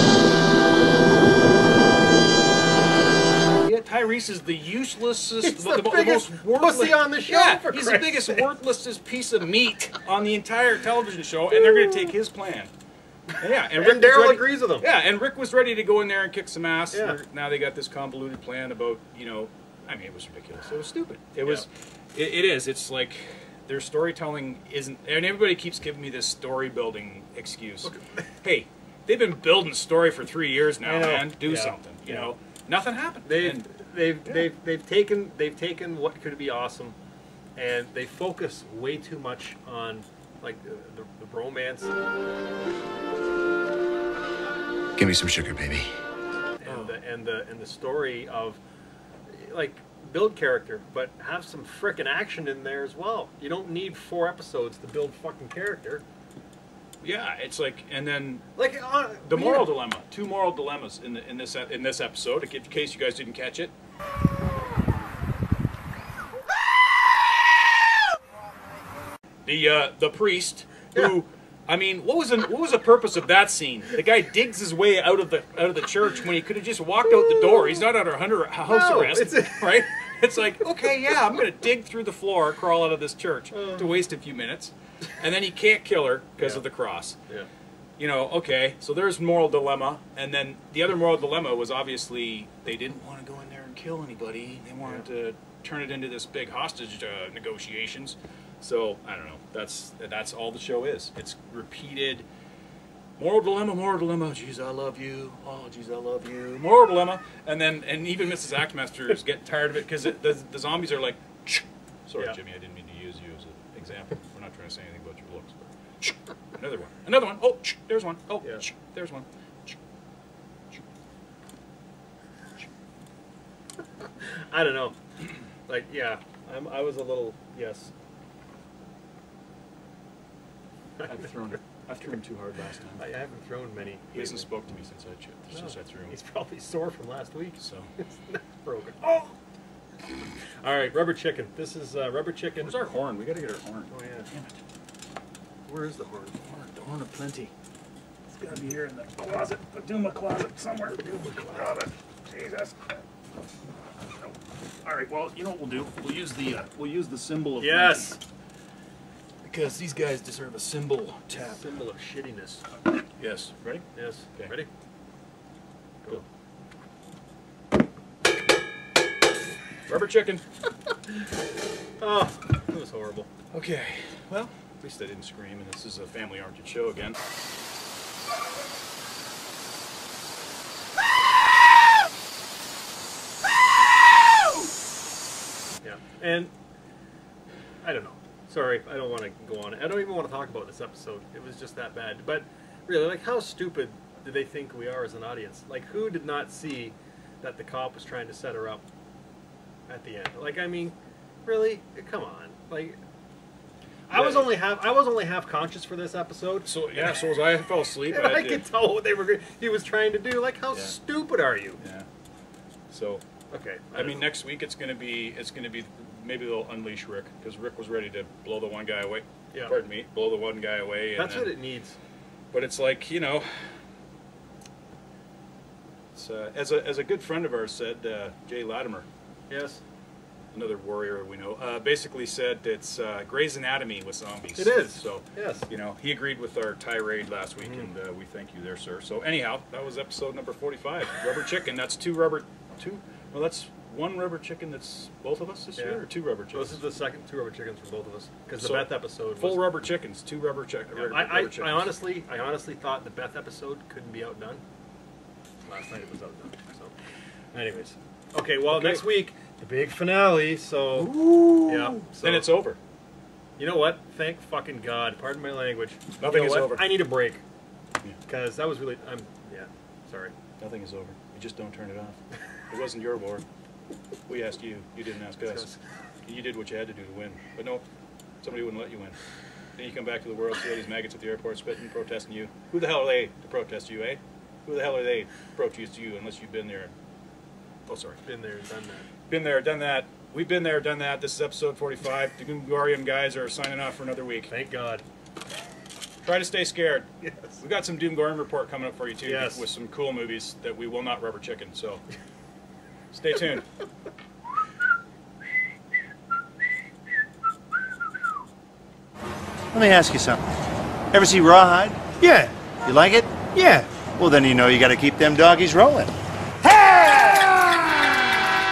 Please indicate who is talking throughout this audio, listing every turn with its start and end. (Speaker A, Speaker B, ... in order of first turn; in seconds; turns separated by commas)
Speaker A: 3.6-12.7, Speaker B: 5.4-8.5, Speaker A: 13.4-33.7, Speaker B: 13.8-14.9, Speaker B: 16.9-17.2, Speaker B: 27.8-28.2, Speaker B: 30.8-32.3, Speaker B: 33.2-37.0, Speaker B: 37.5-41.9, Speaker C: 45.0-45.9, Speaker B: 46.6-48.6, Speaker B: 49.3-56.0, Speaker A: 57.0-58.5, Speaker B: 58.5-59.8, Speaker A: 59.2-63.7, Speaker A: 69.4-87.2, Speaker B: 78.6-79.8, Speaker B: 83.5-83.9, Speaker B: 86.4-86.6, Speaker A: 88.0-102.2, Speaker A: 103.2-119.8, Speaker B: 124.2-125.0, Speaker B: 125.7-127.9, Speaker A: 131.0-133.1, Speaker B: 133.0-134.5, Speaker A: 134.1-136.1, Speaker B: 135.5-139.4, Speaker A: 137.6-137.9, Speaker B: 140.6-142.8, Speaker A: 142.6-144.6, Speaker B: 143.9-144.3, Speaker A: 145.7-147.5, Speaker A: 148.3-152.8, Speaker A: 154.8-158.2, Speaker B: 157.6-158.2, Speaker A: 159.4-161.7, Speaker B: 161.3-162.6, Speaker A: 163.2-164.5, Speaker B: 163.9-164.7, Speaker A: 169.9-170.4, Speaker B: 172.0-173.3, Speaker A: 173.5-177.2, Speaker B: 185.8-186.5, Speaker B: 187.8-198.8, Speaker B: 199.9-203.0, Speaker A: 204.1-204.6, Speaker B: 204.1-207.2, Speaker A: 206.6-208.7, Speaker B: 208.1-211.8, Speaker A: 211.8-212.1, Speaker A: 212.9-213.2, Speaker B: 213.5-214.3, Speaker A: 213.9-221.6, Speaker B: 219.5-219.8, Speaker B: 221.1-222.0, Speaker A: 222.5-223.8, Speaker A: 226.1-229.1, Speaker B: 229.5-229.8, Speaker A: 230.5-246.8, Speaker B: 234.6-235.7, Speaker B: 237.6-237.9, Speaker B: 245.8-249.7, Speaker A: 248.6-252.0, Speaker B: 250.9-254.6, Speaker B: 255.7-256.9, Speaker B: 257.5-262.5, Speaker A: 258.7-259.0, Speaker A: 260.9-262.8, Speaker B: 263.6-267.4, Speaker A: 266.2-267.1, Speaker B: 268.2-270.3, Speaker A: 270.6-273.4, Speaker A: 274.3-275.7, Speaker B: 275.4-275.8, Speaker A: 276.2-277.8, Speaker A: 278.4-279.2, Speaker A: 279.8-286.9, Speaker A: 287.9-288.2, Speaker B: 288.2-289.1, Speaker A: 289.3-294.5, Speaker B: 294.5-295.0, Speaker A: 296.2-302.0, Speaker B: 297.2-297.6, Speaker B: 299.2-299.6, Speaker A: 303.1-303.6, Speaker C: 309.7-310.4, Speaker C: 311.1-312.2, Speaker B: 312.2-312.5, Speaker C: 312.8-317.8